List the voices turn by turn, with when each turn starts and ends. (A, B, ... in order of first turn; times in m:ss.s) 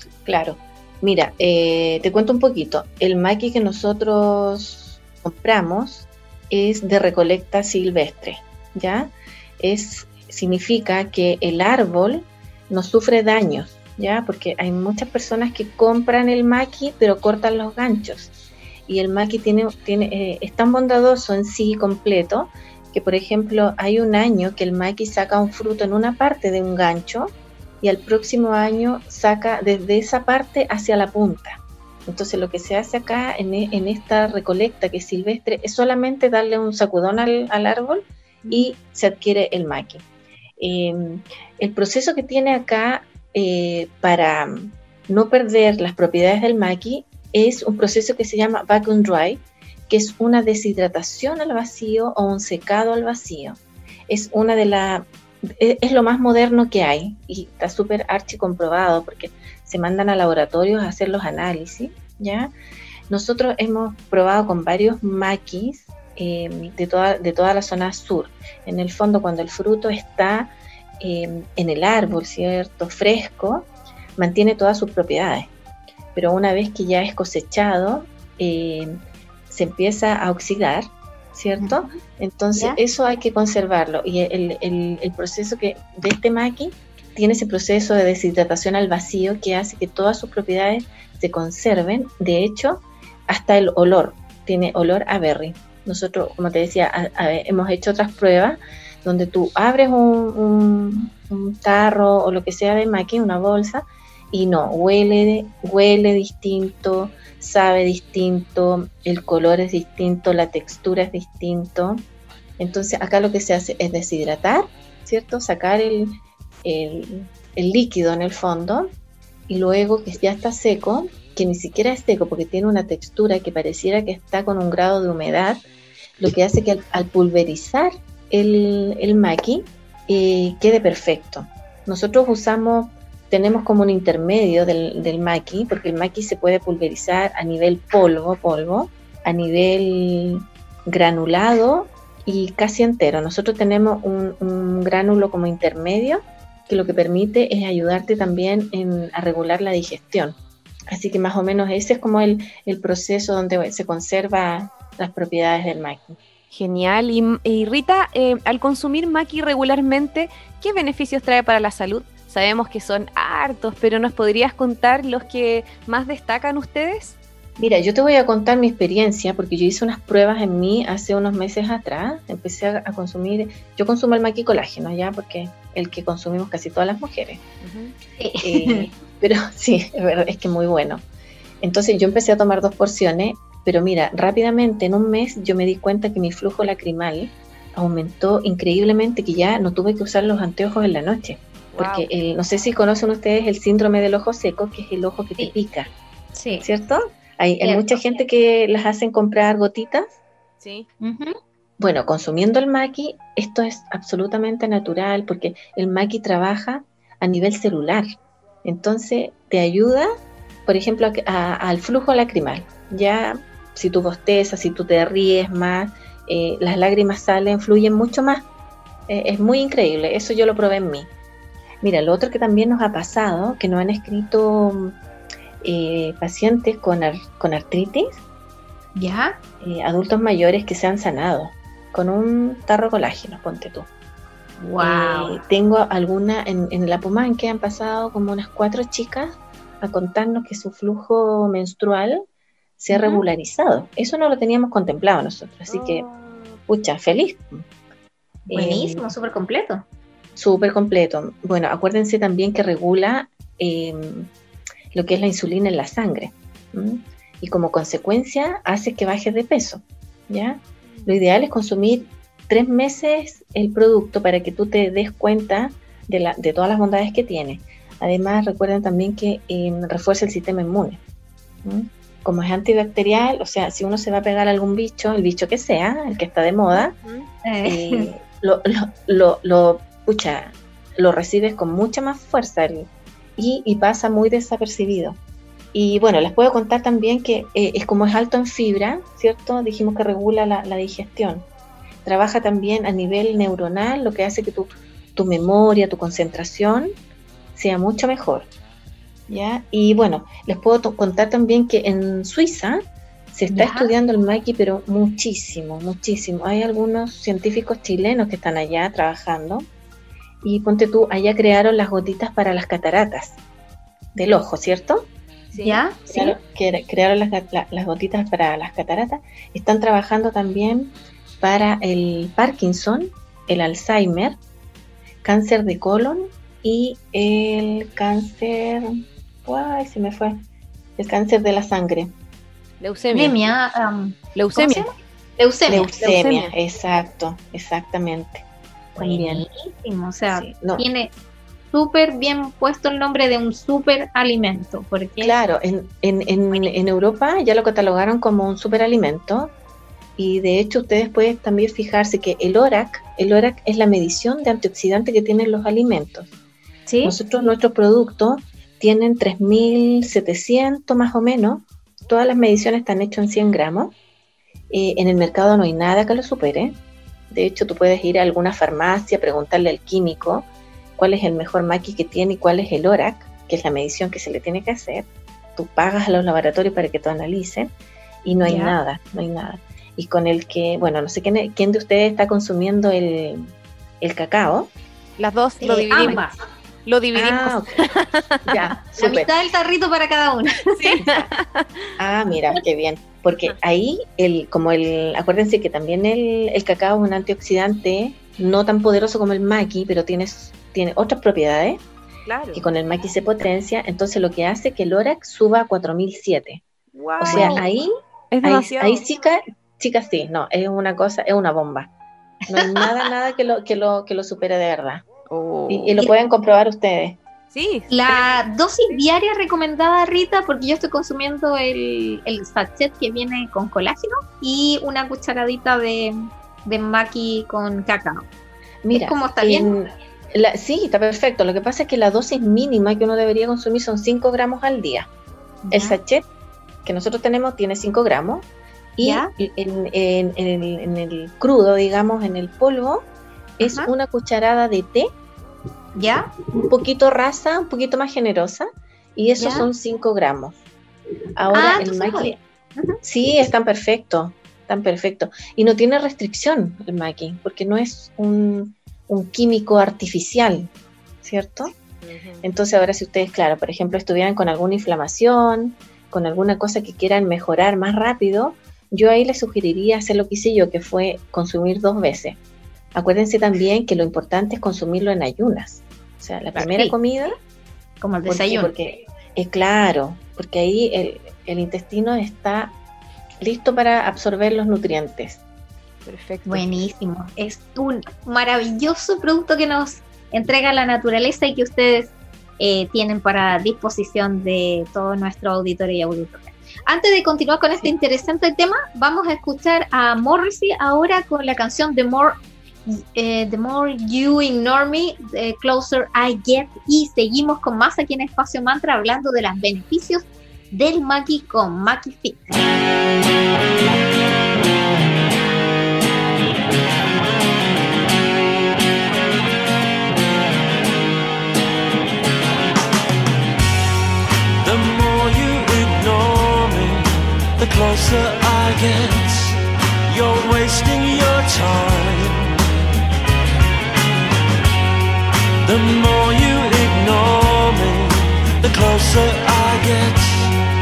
0:00.3-0:18.3 A
0:18.9-0:40.0 A
0:40.6-1:02.5 A
1:03.1-1:15.5 A
1:16.2-1:19.0 A
1:19.5-1:52.0 A
1:21.6-1:22.0 B
1:52.6-1:58.9 A
1:59.5-2:05.6 A
2:06.2-2:30.4 A
2:30.9-2:36.2 A
2:36.5-2:47.2 C
2:47.6-2:57.4 A
2:57.6-2:57.9 C
2:58.2-2:58.9 B
2:58.4-3:01.0 A
3:01.6-3:15.9 A
3:11.7-3:12.1 C
3:16.4-3:16.7 B
3:16.6-3:20.2 A
3:17.6-3:18.0 B
3:20.6-3:20.9 C
3:21.0-3:21.4 B
3:21.8-3:28.0 A
3:28.6-3:30.1 A
3:30.7-3:38.5 A
3:39.1-3:41.1 A
3:41.8-3:45.0 A
3:45.6-3:48.2 A
3:49.0-3:49.4 B
3:49.6-3:53.9 A
3:54.6-3:55.4 B
3:54.8-4:02.2 A
4:02.8-4:06.1 A
4:02.9-4:03.2 B
4:05.7-4:06.6 C
4:06.7-4:07.6 A
4:08.5-4:09.1 A
4:08.5-4:09.8 B
4:10.4-4:14.3 A
4:14.9-4:31.0 A
4:31.6-4:37.0 A
4:36.7-4:37.3 C
4:37.4-4:38.1 B
4:37.6-4:45.2 A
4:45.7-4:51.5 A
4:52.0-4:56.9 A
4:57.6-4:58.5 A
4:59.3-5:02.8 A
5:03.3-5:09.7 A
5:03.5-5:03.9 B
5:10.4-5:13.4 A
5:14.2-5:15.1 A
5:15.5-5:15.8 C
5:15.6-5:16.3 B
5:16.1-5:24.4 A
5:25.2-5:28.9 A
5:29.4-5:30.4 A
5:31.0-5:32.1 A
5:32.8-5:33.4 C
5:33.1-5:35.9 B
5:34.4-5:34.9 C
5:35.7-5:39.4 A
5:36.0-5:36.5 C
5:39.0-5:41.1 B
5:40.3-5:40.8 A
5:41.7-5:45.4 B
5:45.2-5:49.5 A
5:50.2-5:56.3 A
5:56.9-5:57.2 B
5:57.0-6:04.0 A
6:04.7-6:06.8 A
6:07.3-6:17.7 A
6:18.2-6:24.7 A
6:18.4-6:18.8 B
6:25.2-6:26.2 C
6:25.6-6:26.4 B
6:26.9-6:28.6 C
6:27.1-6:27.9 A
6:28.4-6:29.3 A
6:29.0-6:31.0 B
6:30.7-6:31.7 C
6:31.0-6:31.3 A
6:32.0-6:41.8 A
6:42.3-6:42.6 C
6:42.5-6:46.6 A
6:46.9-6:47.6 C
6:47.2-6:47.9 A
6:47.3-6:47.6 B
6:48.3-6:49.0 C
6:48.4-6:51.9 A
6:52.5-6:55.0 A
6:52.5-6:52.9 B
6:55.3-6:55.9 C
6:55.7-6:57.2 A
6:57.5-6:59.0 C
6:57.9-7:08.3 B
7:08.8-7:15.1 A
7:08.9-7:09.7 B
7:15.6-7:16.0 B
7:15.7-7:16.2 A
7:16.8-7:23.1 A
7:19.0-7:19.3 B
7:23.6-7:25.1 A
7:23.6-7:23.9 B
7:26.0-7:26.3 B
7:26.6-7:30.6 A
7:29.4-7:29.7 B
7:31.4-7:32.4 A
7:31.5-7:33.0 B
7:33.0-7:40.7 A
7:41.2-7:41.7 A
7:42.0-7:42.5 C
7:42.4-7:52.4 A
7:52.9-7:57.4 A
7:56.6-7:56.9 B
7:58.0-7:58.7 B
7:58.3-8:02.8 A
8:03.4-8:05.4 A
8:06.0-8:06.8 C
8:06.5-8:32.6 B
8:44.6-8:52.6 D
8:55.6-9:00.5 D